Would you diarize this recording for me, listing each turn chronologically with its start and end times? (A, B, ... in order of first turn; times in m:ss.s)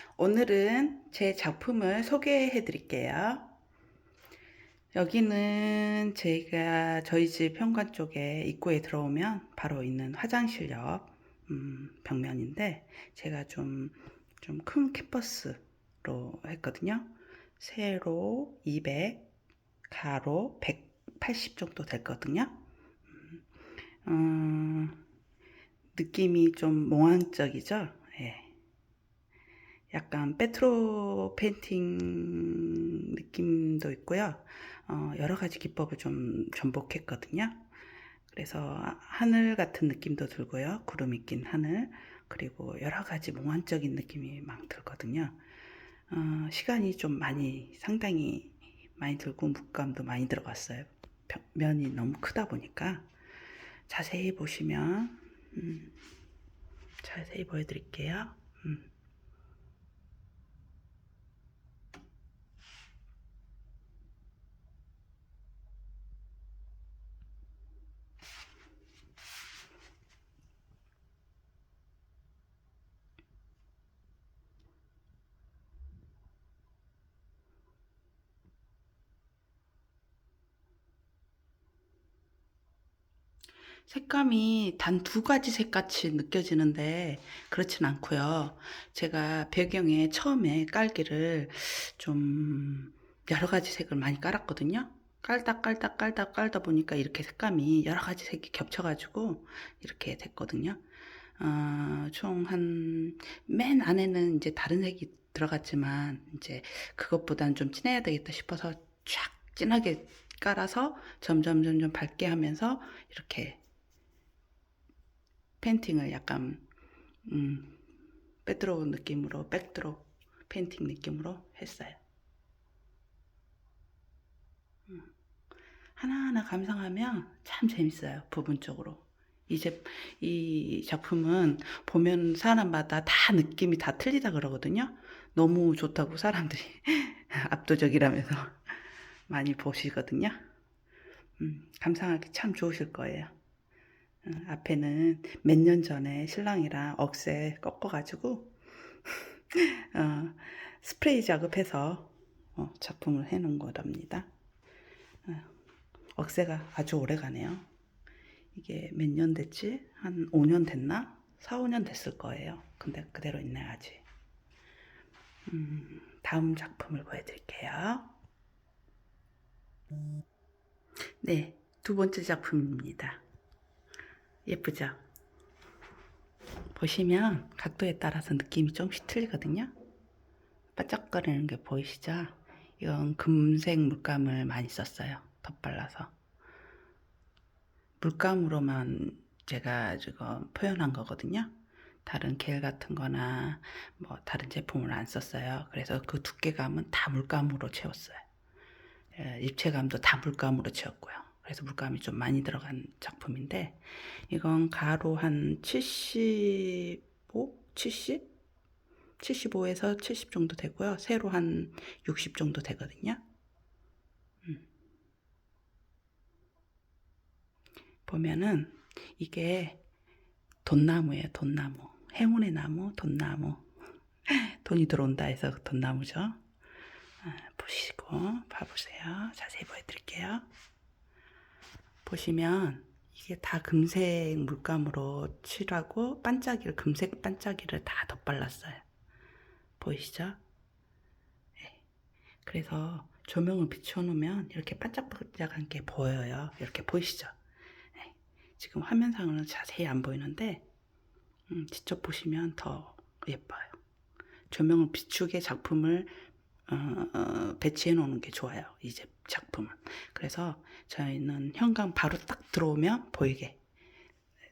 0:00.2-0:03.5 A
0:04.9-0:19.3 A
0:19.9-0:23.4 A
0:24.0-0:25.0 A
0:26.0-0:28.5 A
0:29.9-0:37.7 A
0:38.3-0:45.4 A
0:46.1-0:53.1 A
0:53.9-0:56.0 A
0:57.0-0:58.9 A
1:23.9-1:40.8 A
1:41.4-1:53.6 A
1:55.6-1:56.6 A
1:57.3-1:57.8 A
1:58.4-2:02.0 A
2:06.0-2:20.4 A
2:21.4-2:23.3 A
2:24.2-2:34.3 A
2:35.2-2:35.5 A
2:36.2-2:37.7 A
2:38.6-2:44.0 A
2:45.5-2:48.1 A
2:51.2-2:53.2 A
2:54.5-2:55.0 A
2:56.7-2:59.7 A
3:00.8-3:06.1 A
3:08.0-3:11.5 A
3:12.0-3:18.2 A
3:19.2-3:28.3 A
3:29.2-3:33.2 A
3:38.1-3:39.8 A
3:40.6-3:43.7 A
3:44.3-3:46.4 A
3:47.2-3:50.5 A
3:52.0-3:58.8 A
3:59.8-4:00.4 A
4:02.4-4:07.4 A
4:08.0-4:10.6 A
4:11.5-4:13.8 A
4:14.5-4:16.2 A
4:16.7-4:23.6 A